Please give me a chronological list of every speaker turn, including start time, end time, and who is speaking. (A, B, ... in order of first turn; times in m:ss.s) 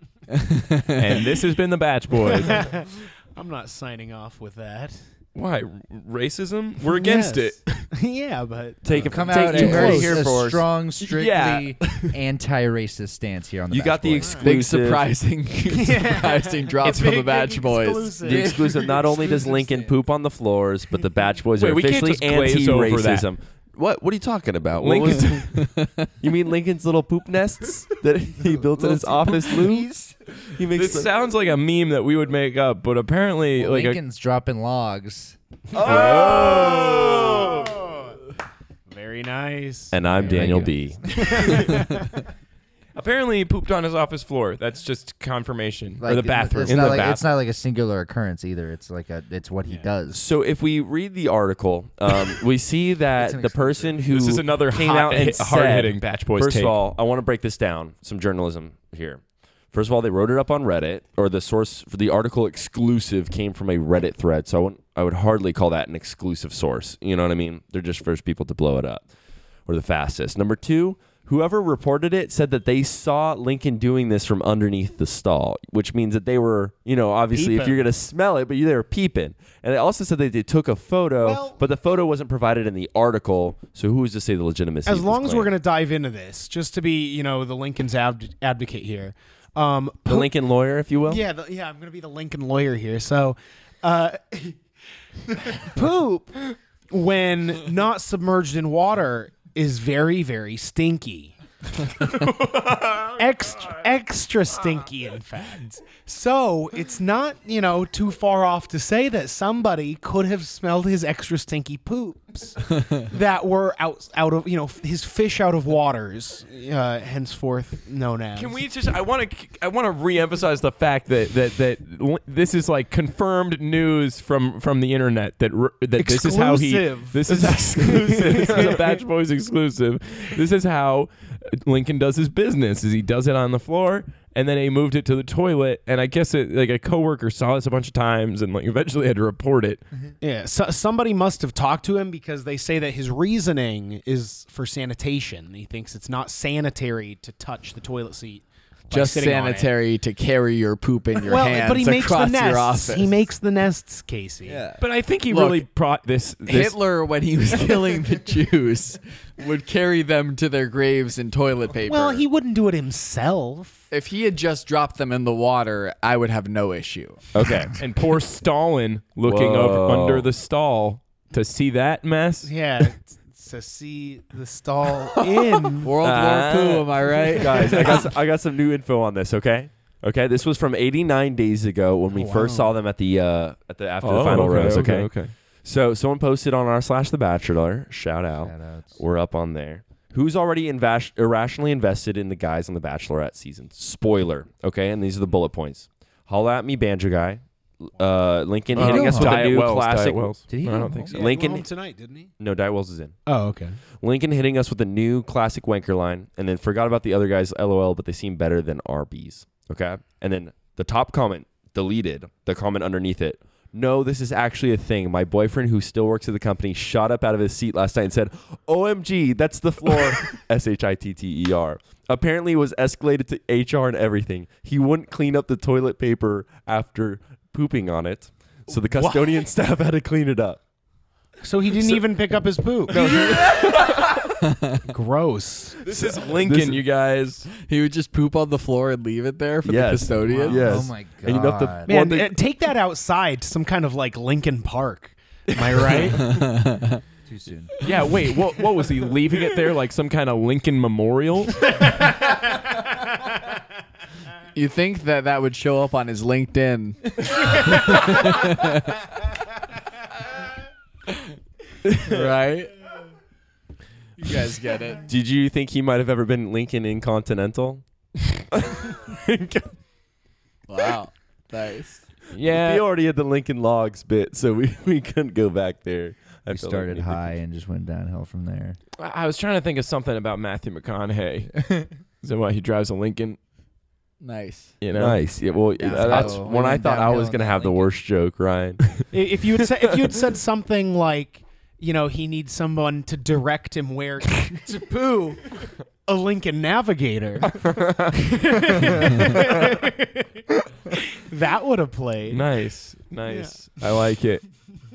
0:00.3-0:01.2 A
0:01.0-0:02.7 B
0:02.2-0:05.0 C
0:05.4-0:07.9 B
0:06.8-0:10.0 C
0:08.8-0:10.7 D
0:08.9-0:14.5 E
0:09.3-0:10.3 B
0:09.6-0:10.1 A
0:11.0-0:12.1 B
0:13.7-0:15.1 D
0:14.2-0:14.5 C
0:14.4-0:18.3 A
0:15.7-0:18.7 C
0:18.2-0:25.7 D
0:18.3-0:20.0 E
0:21.6-0:23.3 B
0:24.8-0:25.6 B
0:25.5-0:26.1 A
0:26.2-0:29.9 D
0:28.6-0:30.2 E
0:30.4-0:31.1 D
0:30.7-0:34.0 B
0:33.6-0:35.4 E
0:35.7-0:37.8 D
0:35.8-0:38.2 C
0:36.2-0:36.8 E
0:38.9-0:40.0 C
0:39.9-0:41.6 D
0:40.1-0:40.9 E
0:41.1-0:42.3 C
0:41.4-0:41.8 B
0:43.0-0:47.2 B
0:46.0-0:50.3 E
0:46.7-0:47.0 D
0:50.1-0:59.2 D
0:53.2-0:54.0 E
0:54.1-0:56.8 B
0:59.7-1:09.1 D
1:09.7-1:25.5 D
1:17.3-1:17.8 C
1:21.2-1:21.6 C
1:24.8-1:30.3 C
1:30.1-1:31.2 D
1:31.0-1:34.6 C
1:35.4-1:41.4 C
1:42.0-1:43.2 B
1:43.2-1:58.6 C
1:58.4-2:19.8 B
2:06.0-2:08.8 C
2:08.2-2:08.8 D
2:20.2-2:29.7 C
2:28.9-2:33.1 A
2:31.2-2:34.6 C
2:34.4-2:34.8 E
2:34.8-2:36.8 B
2:35.3-2:35.7 A
2:36.5-2:42.3 A
2:41.8-2:43.9 C
2:43.9-2:47.2 A
2:47.3-2:47.7 D
2:47.8-2:52.5 B
2:49.3-2:50.3 D
2:52.4-2:55.9 C
2:55.8-2:58.1 A
2:56.0-3:20.3 D
3:02.1-3:02.7 C
3:04.0-3:05.3 B
3:08.4-3:09.0 E
3:18.7-3:19.5 E
3:18.8-3:21.1 B
3:20.5-3:21.1 E
3:21.1-3:22.3 C
3:21.1-3:21.7 D
3:22.4-3:23.2 D
3:23.3-3:23.8 C
3:24.0-3:50.6 D
3:48.7-3:49.5 C
3:51.4-3:53.1 C
3:52.9-3:54.3 B
3:52.9-3:54.0 D
3:54.4-3:54.9 A
3:54.9-3:55.9 C
3:55.8-3:57.5 B
3:56.1-3:56.9 D
3:57.6-4:00.8 A
3:59.6-4:02.4 D
4:00.3-4:00.6 C
4:00.5-4:01.9 E
4:01.8-4:06.4 C
4:05.5-4:06.2 B
4:06.1-4:07.0 A
4:07.3-4:07.7 E
4:07.8-4:11.7 B
4:11.7-4:12.8 C
4:14.5-4:19.1 A
4:21.8-4:22.8 A
4:24.2-4:25.1 A
4:25.1-4:27.8 D
4:28.4-4:29.7 D
4:30.7-4:32.1 A
4:32.3-4:32.8 B
4:32.3-4:37.3 D
4:36.5-4:38.8 E
4:39.0-4:41.6 B
4:42.2-4:43.4 B
4:44.2-4:44.8 A
4:44.8-4:45.2 B
4:44.9-4:49.1 D
4:45.8-4:47.9 E
4:45.9-4:46.3 B
4:49.1-5:02.5 C
4:57.6-4:58.2 D
5:02.3-5:04.4 B
5:03.3-5:03.6 C